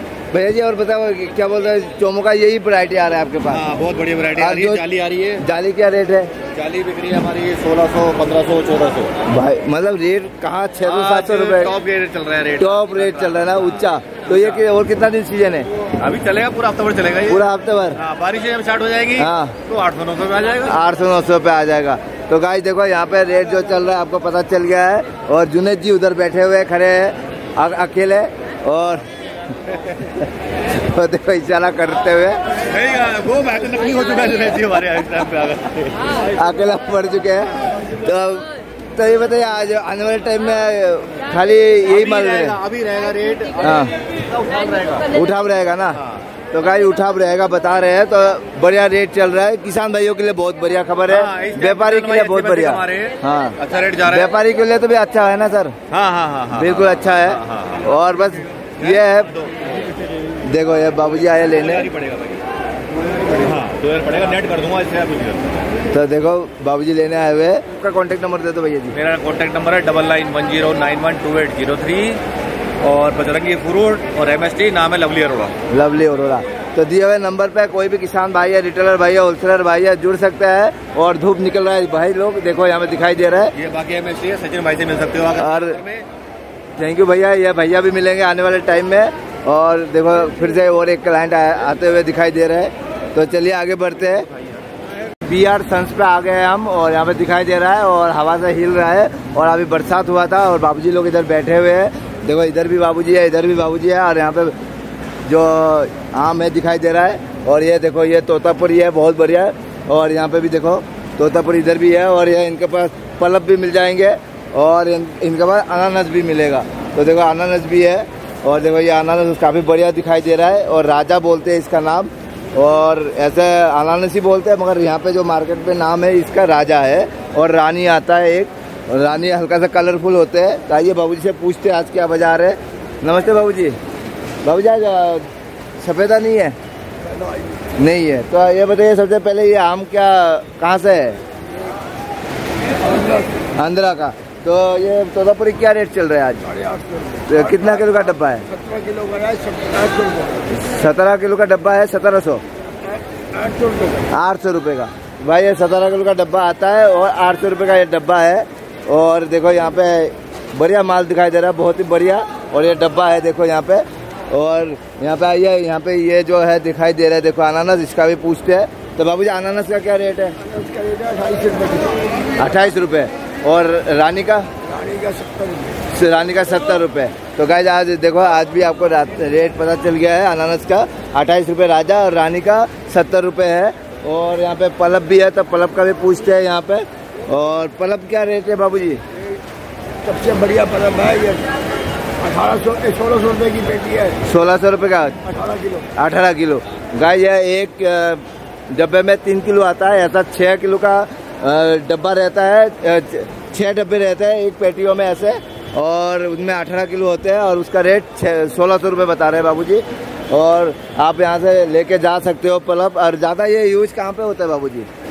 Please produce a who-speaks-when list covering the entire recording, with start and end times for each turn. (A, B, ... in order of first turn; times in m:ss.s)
0:00.3-0:03.6 A
0:03.5-0:05.4 B
0:04.4-0:04.8 A
0:05.4-0:06.3 A
0:06.5-0:09.1 B
0:09.3-0:11.7 A
0:10.8-0:14.6 B
0:12.6-0:15.7 A
0:16.0-0:20.8 B
0:17.3-0:18.0 A
0:19.2-0:19.5 A
0:20.7-0:29.0 A
0:30.8-0:32.4 A
0:32.7-0:36.0 B
0:36.4-0:42.6 A
0:41.9-0:45.1 B
0:43.6-0:43.9 A
0:45.1-0:46.0 A
0:45.9-0:46.2 B
0:46.5-0:55.8 A
0:51.1-0:54.4 B
0:55.9-0:57.9 B
0:56.5-0:59.3 A
0:58.8-0:59.8 B
1:00.5-1:01.9 A
1:01.2-1:02.4 B
1:03.4-1:05.6 B
1:05.9-1:08.9 A
1:08.9-1:12.2 B
1:12.8-1:15.6 B
1:15.7-1:23.5 A
1:23.5-1:26.0 B
1:25.4-1:25.8 A
1:26.8-1:34.3 A
1:35.2-1:44.5 A
1:45.2-2:13.8 A
2:14.4-2:15.3 A
2:15.8-2:16.6 A
2:17.0-2:17.7 C
2:17.8-2:21.2 A
2:22.8-2:23.5 C
2:23.6-2:26.5 A
2:26.4-2:30.5 C
2:27.2-2:28.4 A
2:30.5-2:32.4 A
2:32.9-2:34.1 C
2:34.1-2:50.4 A
2:50.4-2:52.3 C
2:52.4-2:54.5 A
2:54.6-2:55.8 C
2:55.9-3:09.0 A
3:10.0-3:11.5 C
3:12.2-3:14.2 C
3:14.2-3:15.2 A
3:15.2-3:15.9 C
3:16.0-3:34.9 A